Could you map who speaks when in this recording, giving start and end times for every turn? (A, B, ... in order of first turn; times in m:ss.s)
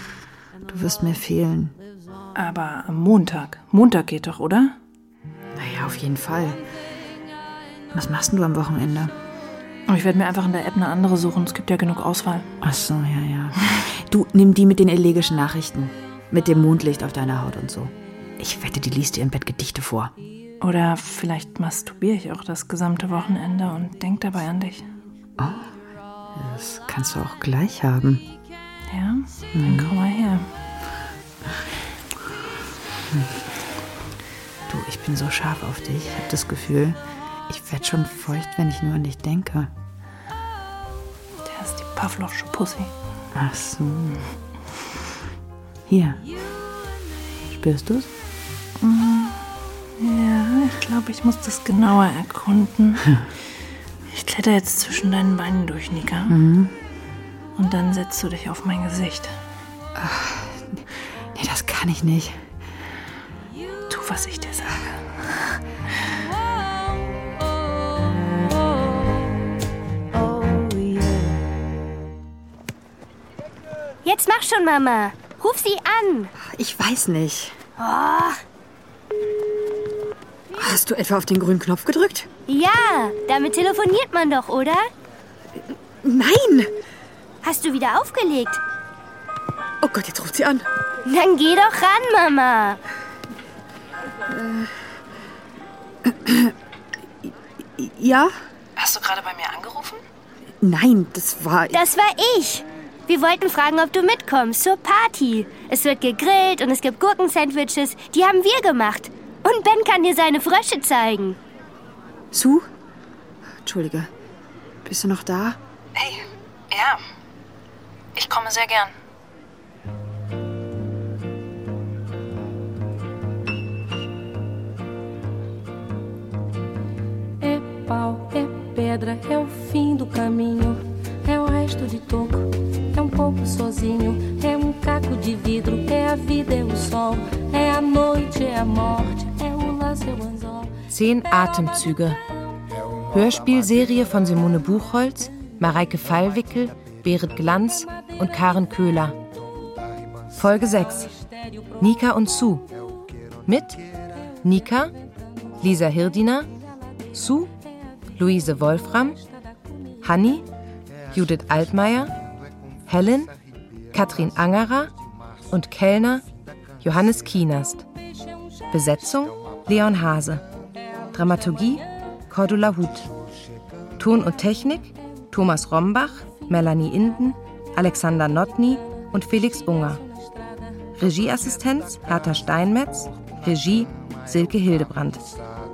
0:00.6-0:01.8 A
0:02.3-0:04.8 B
0:05.5-0:06.6 A
0:07.9-0:09.1 A
0:09.9-0:12.5 B
0:12.6-0:20.1 A
0:20.6-0:24.9 B
0:25.4-0:25.8 A
0:26.3-0:28.2 A
0:28.9-0:30.5 B
0:29.5-0:29.9 A
0:33.1-0:33.4 A
0:34.7-0:39.7 A
0:41.4-0:42.9 B
0:43.3-0:44.3 A
0:45.9-0:46.2 A
0:47.5-0:48.1 A
0:48.8-0:49.4 B
0:50.0-0:53.2 B
0:54.1-0:56.4 B
0:56.3-0:56.8 A
0:57.6-0:59.4 B
0:59.9-1:02.5 A
1:03.9-1:05.6 B
1:14.0-1:16.3 C
1:16.4-1:17.6 A
1:17.8-1:18.4 C
1:20.5-1:22.3 A
1:22.5-1:24.9 C
1:25.5-1:26.7 A
1:27.4-1:28.6 C
1:29.8-1:30.7 A
1:31.0-1:32.8 C
1:34.2-1:34.9 A
1:36.0-1:36.6 A
1:37.2-1:38.3 A
1:38.8-1:40.0 B
1:40.6-1:41.9 A
1:41.7-1:51.4 C
1:52.3-1:52.7 A
1:53.6-1:54.1 A
1:54.8-1:55.6 A
1:56.0-1:57.0 B
1:58.1-1:58.9 B
2:07.4-2:20.8 D
2:20.9-2:22.2 E
2:23.1-2:29.2 E
2:30.3-2:31.1 E
2:31.8-2:32.7 E
2:33.4-2:33.8 E
2:34.4-2:34.9 E
2:35.6-2:36.5 E
2:37.1-2:37.5 E
2:38.1-2:39.2 E
2:40.0-2:40.4 E
2:41.1-2:42.1 E
2:42.9-2:43.3 E
2:43.9-2:44.9 E
2:45.5-2:46.2 E
2:46.8-2:47.9 E
2:48.7-2:50.4 E
2:51.1-2:53.1 E
2:54.0-3:00.0 E
3:01.0-3:05.3 E